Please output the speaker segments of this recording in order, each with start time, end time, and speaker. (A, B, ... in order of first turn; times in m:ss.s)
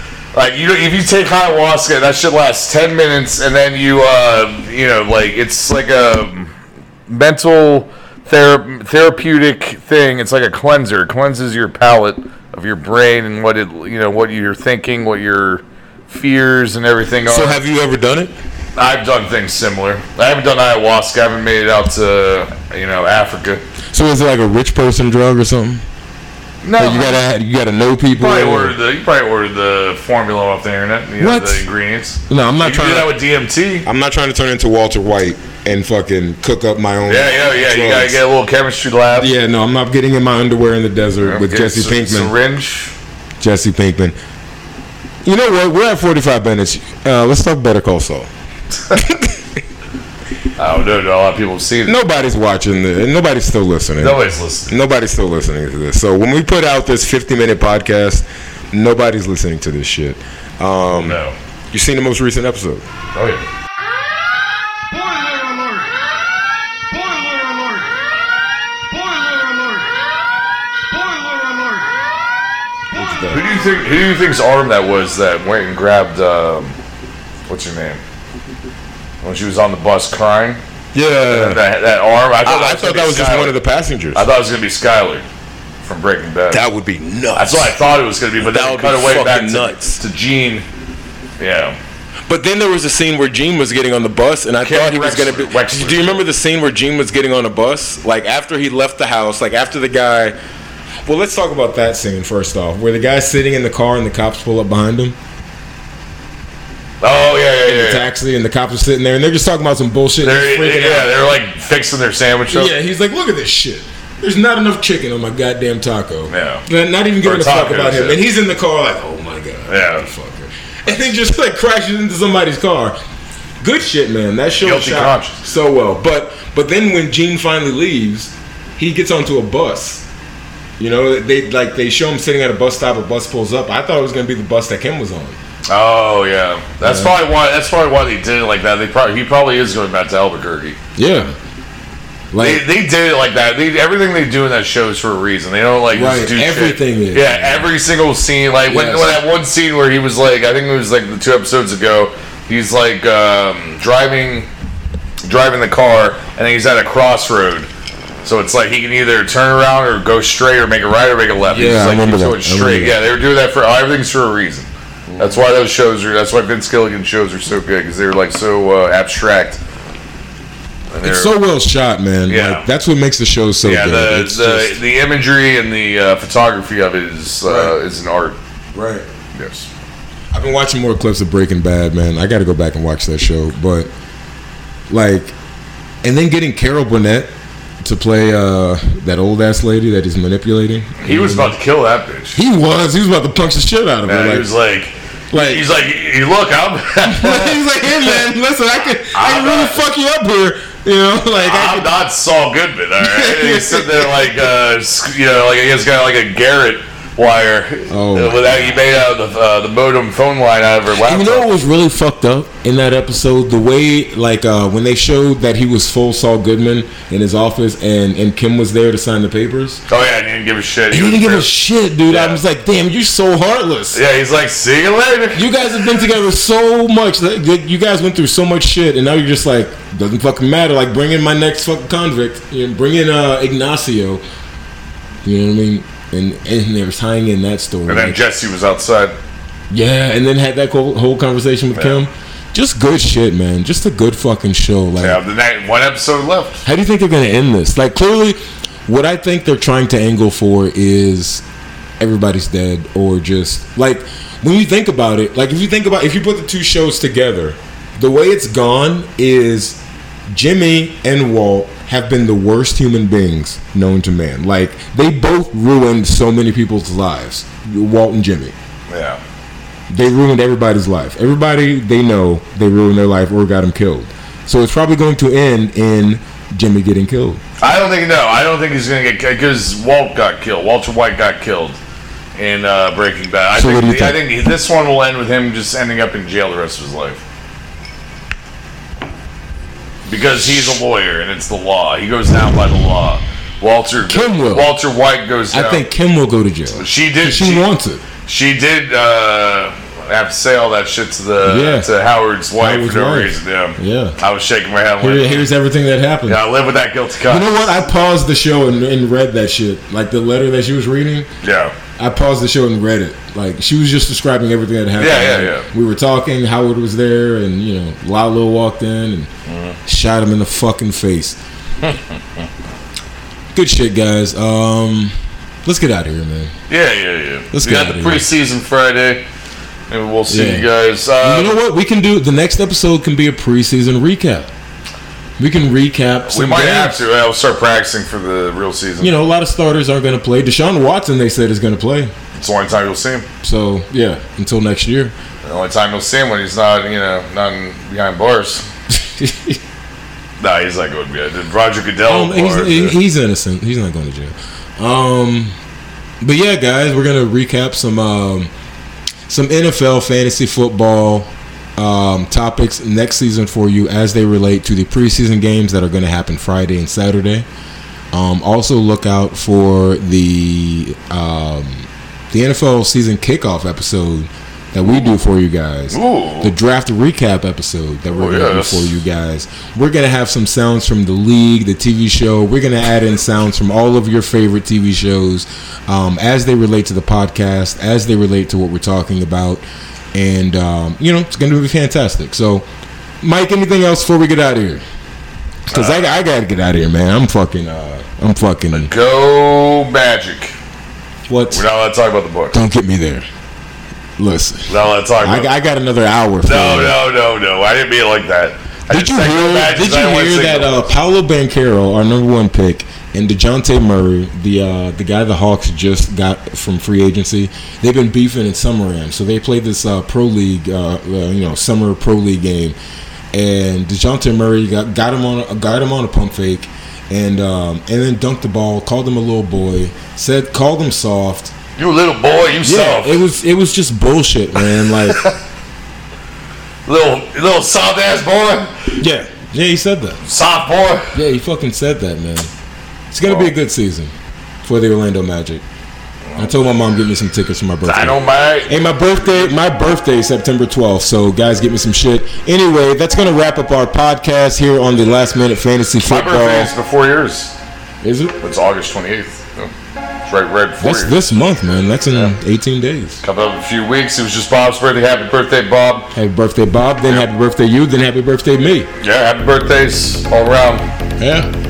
0:00.3-0:06.5 A
0:07.1-0:17.6 A
0:17.2-0:18.3 B
0:18.7-0:23.6 A
0:23.9-0:25.8 B
0:26.6-0:27.2 A
0:26.8-0:28.8 B
0:28.2-0:33.8 A
0:31.2-0:31.7 B
0:32.3-0:33.2 B
0:33.8-0:38.2 B
0:37.0-0:39.3 A
0:39.1-0:42.3 B
0:41.2-0:42.9 A
0:43.4-0:44.2 B
0:45.2-0:48.3 B
0:48.9-0:49.4 B
0:50.6-0:51.9 A
0:51.8-1:02.9 B
0:54.0-0:54.7 A
1:00.9-1:01.4 A
1:03.1-1:03.4 A
1:04.9-1:05.9 C
1:06.9-1:07.9 C
1:08.9-1:10.0 C
1:10.9-1:12.0 C
1:12.9-1:13.4 C
1:12.9-1:13.4 B
1:13.3-1:16.8 A
1:17.5-1:18.0 A
1:19.2-1:20.6 A
1:20.9-1:21.6 B
1:21.3-1:23.6 A
1:22.4-1:24.3 B
1:24.1-1:25.2 A
1:25.8-1:26.6 A
1:26.5-1:27.8 B
1:27.3-1:30.6 A
1:28.4-1:30.0 B
1:31.4-1:31.8 A
1:32.3-1:40.4 B
1:34.6-1:36.2 A
1:41.0-1:45.2 B
1:47.0-1:48.0 A
1:47.6-1:51.3 B
1:50.2-1:52.7 A
1:52.5-2:03.0 B
1:56.3-1:56.6 A
1:57.2-1:58.2 A
1:59.7-2:00.0 A
2:03.6-2:10.0 B
2:04.6-2:05.4 A
2:10.8-2:15.4 B
2:15.7-2:20.8 A
2:16.8-2:17.2 B
2:21.0-2:21.3 B
2:22.3-2:22.6 B
2:22.4-2:34.5 A
2:25.9-2:27.7 B
2:28.7-2:29.2 B
2:35.2-2:37.7 A
2:38.2-2:49.6 A
2:41.5-2:43.1 B
2:45.1-2:45.4 B
2:50.9-2:51.3 A
2:51.0-2:54.8 B
2:52.3-2:52.6 A
2:53.6-2:58.4 A
2:57.4-2:57.8 B
2:58.7-2:59.1 B
2:59.3-2:59.7 A
3:00.3-3:03.9 B
3:04.9-3:05.3 B
3:06.0-3:11.6 B
3:11.0-3:12.4 A
3:12.3-3:14.5 B
3:14.0-3:18.2 A
3:15.3-3:15.7 B
3:17.0-3:21.9 B
3:19.1-3:19.8 A
3:21.4-3:31.5 A
3:23.0-3:24.2 B
3:27.9-3:28.8 B
3:30.9-3:39.8 B
3:39.9-3:41.5 A
3:40.9-3:44.0 B
3:42.1-3:42.4 A
3:43.9-3:45.7 A
3:45.3-3:54.2 B
3:55.2-3:58.2 B
3:57.9-3:59.2 A
3:59.7-4:05.2 B
4:01.7-4:02.0 A
4:05.0-4:06.6 A
4:06.6-4:11.4 B
4:12.0-4:28.5 B
4:28.9-4:29.2 A
4:29.9-4:37.4 B
4:37.6-4:41.8 A
4:42.4-4:47.2 A
4:43.5-4:44.2 B
4:50.1-4:55.8 A
4:54.0-4:54.7 B
4:55.5-4:58.0 B
4:56.7-4:57.7 A
4:58.2-5:05.5 A
5:01.4-5:01.9 B
5:02.6-5:04.2 B
5:05.0-5:06.4 B
5:06.2-5:07.8 A
5:07.2-5:11.3 B
5:11.4-5:11.7 A
5:12.0-5:19.3 B
5:15.0-5:15.7 A
5:19.4-5:19.8 A
5:19.8-5:21.4 B
5:21.8-5:22.2 A
5:23.5-5:26.5 B
5:26.7-5:29.2 A
5:27.5-5:28.3 B
5:29.9-5:31.6 A
5:30.3-5:34.5 B
5:35.4-5:37.0 B
5:36.3-5:39.1 A
5:39.0-5:42.1 B
5:42.3-5:43.2 A
5:43.4-5:45.1 B
5:45.4-5:48.7 A
5:48.9-5:49.6 B
5:50.4-5:53.0 A
5:52.0-5:55.6 B
5:56.2-5:58.5 B
5:59.3-6:07.4 B
6:08.1-6:32.6 B
6:15.9-6:16.5 A
6:18.1-6:18.9 A
6:33.2-6:34.8 B
6:35.7-6:38.9 B
6:35.7-6:36.2 A
6:38.7-6:40.5 A
6:41.3-6:41.6 B
6:41.5-6:42.6 A
6:42.5-6:43.3 B
6:44.2-6:47.0 B
6:44.7-6:45.5 A
6:46.4-6:50.8 A
6:48.9-7:02.8 B
7:03.3-7:11.5 B
7:11.8-7:13.2 A
7:12.6-7:15.2 B
7:14.6-7:15.4 A
7:16.9-7:19.0 A
7:19.0-7:20.2 B
7:20.2-7:21.2 A
7:21.1-7:22.5 B
7:23.1-7:25.6 B
7:23.2-7:23.5 A
7:26.4-7:36.7 B
7:27.8-7:29.5 A
7:36.0-7:37.5 A
7:38.0-7:38.3 B
7:38.4-7:39.7 A
7:40.2-7:41.3 A
7:40.8-7:43.2 B
7:43.2-7:46.1 A
7:46.1-7:48.9 B
7:49.0-7:50.8 A
7:51.2-7:51.5 B